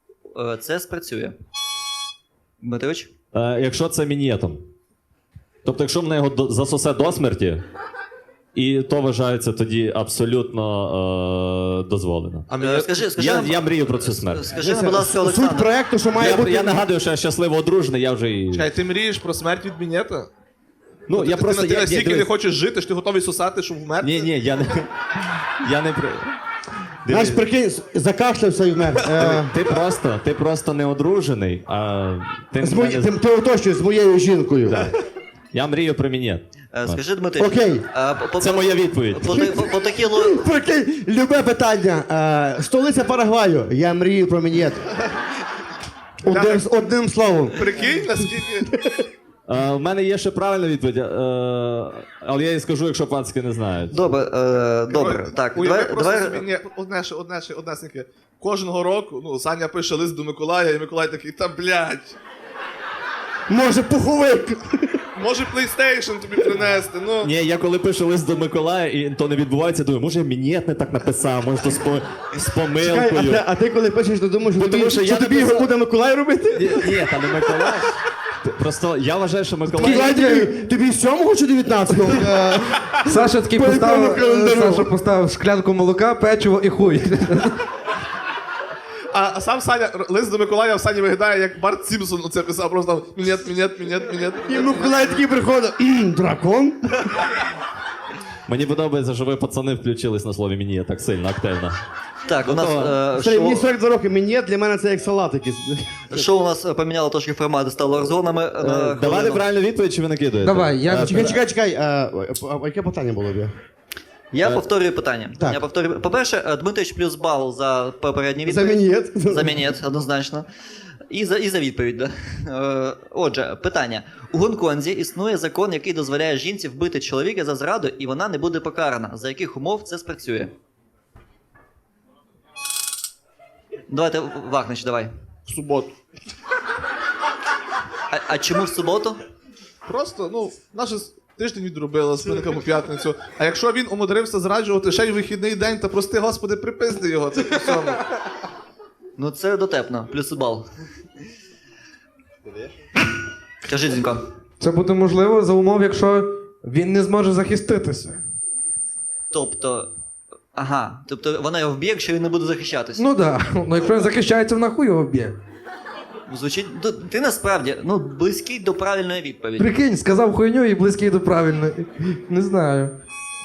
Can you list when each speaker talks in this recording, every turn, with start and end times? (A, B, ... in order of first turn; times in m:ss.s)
0:00.3-0:01.4 A
0:02.6-0:03.1 A
0:03.3-0:04.6 B
0:05.6-0:07.6 B
0:08.5-0:12.5 B
0:12.5-0:12.9 C
0:12.6-0:15.7 A
0:13.2-0:14.4 B
0:14.5-0:16.8 D
0:16.1-0:18.7 B
0:18.5-0:20.3 C
0:21.1-0:22.3 B
0:21.1-0:24.3 C
0:24.0-0:26.3 B
0:27.0-0:27.4 B
0:27.1-0:29.5 D
0:29.1-0:33.1 B
0:32.6-0:34.9 D
0:34.7-0:35.0 B
0:35.5-0:37.0 B
0:36.7-0:40.4 A
0:37.4-0:37.8 D
0:38.4-0:39.5 B
0:39.3-0:44.9 D
0:46.2-0:47.7 D
0:46.2-0:46.6 C
0:47.5-0:48.7 C
0:48.7-0:49.1 D
0:49.5-0:54.0 B
0:53.9-0:56.5 A
0:54.9-1:02.2 C
1:03.5-1:05.0 D
1:05.2-1:07.3 C
1:07.2-1:13.4 B
1:12.8-1:17.1 D
1:14.5-1:15.7 B
1:16.5-1:20.2 B
1:19.7-1:24.9 D
1:19.8-1:20.5 E
1:22.2-1:23.0 C
1:23.0-1:27.6 E
1:29.1-1:34.9 C
1:34.5-1:37.0 D
1:38.5-1:41.8 B
1:42.2-1:43.7 A
1:42.4-1:43.0 B
1:43.1-1:46.2 D
1:46.1-1:49.4 A
1:48.6-1:51.4 B
1:50.4-1:51.3 E
1:51.0-1:53.5 D
1:54.3-2:00.5 A
1:58.4-1:59.7 D
2:01.1-2:10.5 A
2:13.9-2:15.1 A
2:15.4-2:15.9 C
2:18.1-2:19.2 A
2:19.8-2:28.0 C
2:29.2-2:30.7 A
2:33.6-2:34.2 A
2:34.6-2:38.2 E
2:39.3-2:39.9 A
2:40.5-2:43.0 A
2:43.0-2:45.4 E
2:46.3-2:49.7 A
2:49.6-2:52.9 E